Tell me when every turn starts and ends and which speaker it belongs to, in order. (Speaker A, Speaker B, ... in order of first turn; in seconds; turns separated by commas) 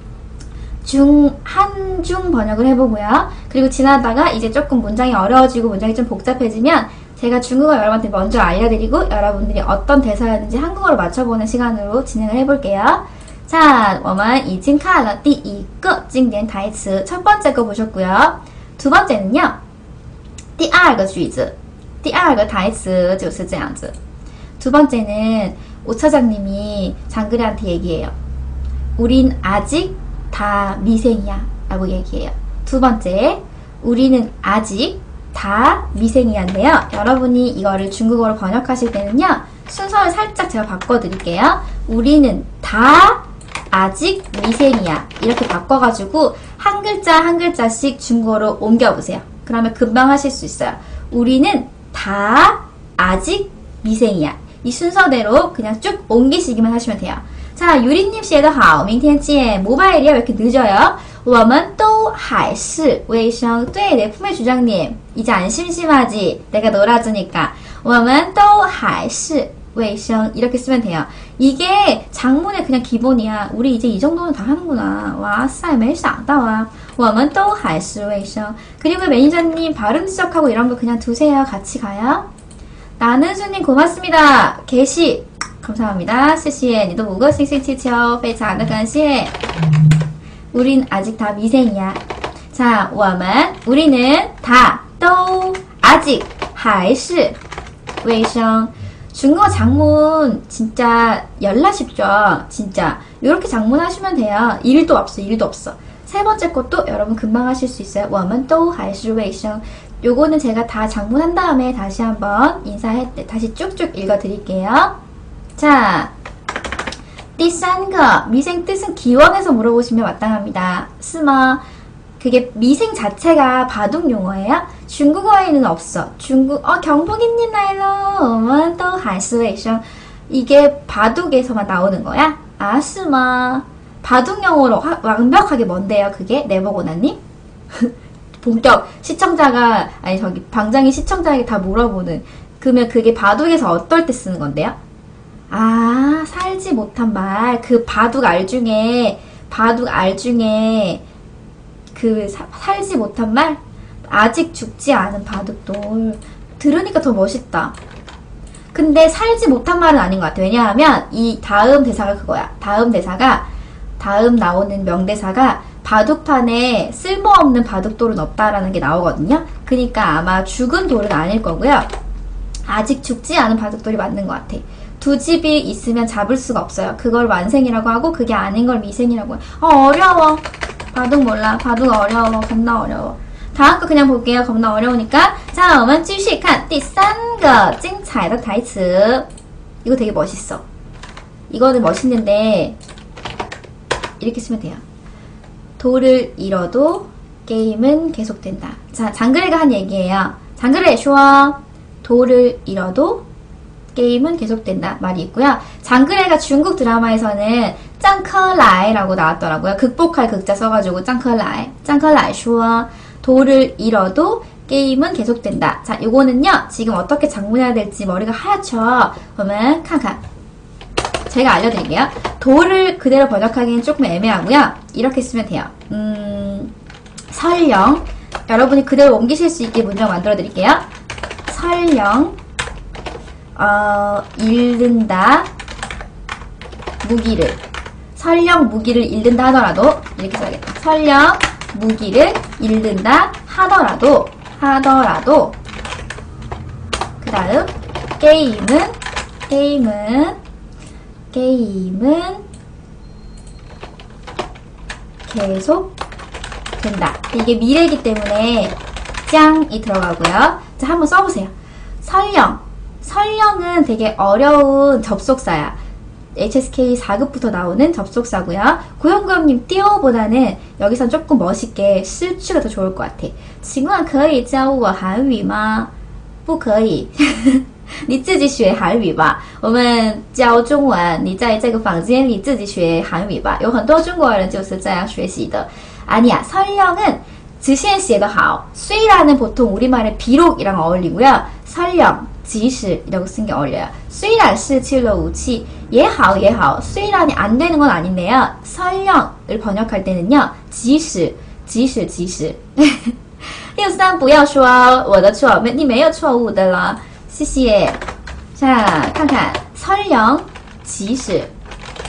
Speaker A: 0.8-19.6, Speaker A: 20.6-23.9, Speaker A: 24.6-28.1, Speaker A: 29.0-82.2, Speaker A: 83.0-89.3, Speaker A: 90.5-92.0, Speaker A: 92.5-97.4, Speaker A: 98.0-114.9, Speaker A: 115.6-116.1, Speaker A: 117.4-121.6, Speaker A: 122.2-137.2, Speaker A: 137.7-144.8, Speaker A: 145.5-151.0, Speaker A: 151.9-157.7, Speaker A: 158.7-163.5, Speaker A: 164.0-171.9, Speaker A: 172.7-189.3, Speaker A: 189.8-190.6, Speaker A: 191.5-192.8, Speaker A: 194.2-194.8, Speaker A: 195.8-203.2, Speaker A: 203.9-220.2, Speaker A: 221.3-226.7, Speaker A: 227.3-230.8, Speaker A: 231.5-232.3, Speaker A: 233.6-235.5, Speaker A: 237.0-237.6, Speaker A: 238.2-245.6, Speaker A: 247.2-249.0, Speaker A: 249.5-250.4, Speaker A: 251.3-252.4, Speaker A: 255.3-255.9, Speaker A: 256.8-258.8, Speaker A: 259.3-265.8, Speaker A: 266.4-275.9, Speaker A: 276.5-303.2, Speaker A: 303.8-308.0, Speaker A: 308.6-311.5